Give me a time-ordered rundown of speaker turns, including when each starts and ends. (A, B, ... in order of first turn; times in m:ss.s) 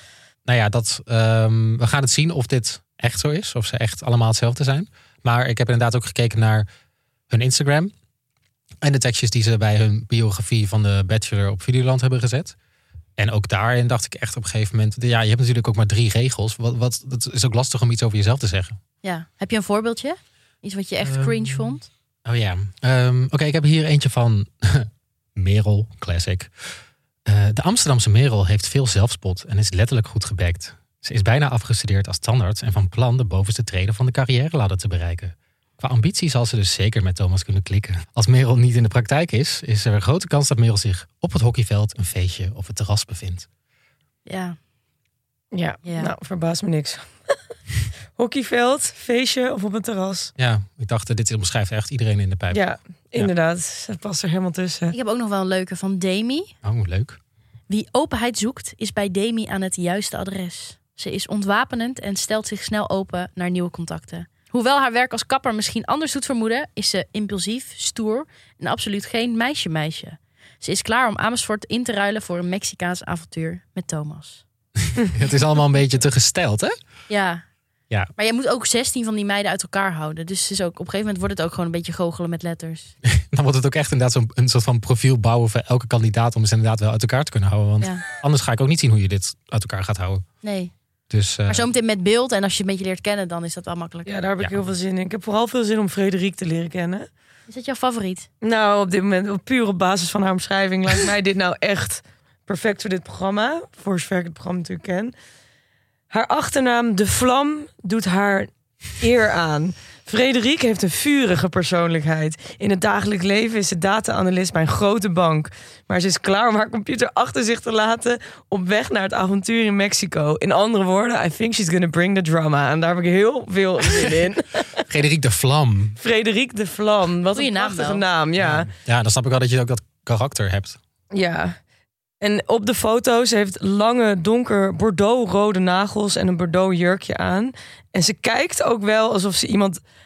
0:00.5-0:06.6 A
0:07.3-0:07.9 A
0:08.8-0:12.6 A
0:13.2-0:18.8 A
0:19.0-0:21.9 B
0:21.0-0:26.5 A
0:27.2-0:43.5 A
0:44.2-0:44.6 B
0:45.5-0:47.4 C
0:45.8-0:46.1 B
0:48.2-0:50.3 C
0:50.4-0:52.6 A
0:52.5-0:54.9 C
0:54.9-0:56.5 B
0:56.6-0:57.2 A
0:57.7-1:14.4 B
1:15.0-1:16.7 A
1:17.1-1:17.4 B
1:18.2-1:22.9 B
1:23.1-1:30.2 A
1:30.4-1:30.7 B
1:31.1-1:31.7 A
1:31.5-1:34.2 B
1:34.1-1:37.1 C
1:37.5-1:38.3 B
1:38.4-1:45.1 C
1:46.1-2:04.8 C
2:04.9-2:06.0 A
2:06.0-2:08.7 C
2:07.3-2:08.0 B
2:08.4-2:10.8 A
2:11.1-2:11.6 C
2:12.2-2:19.8 C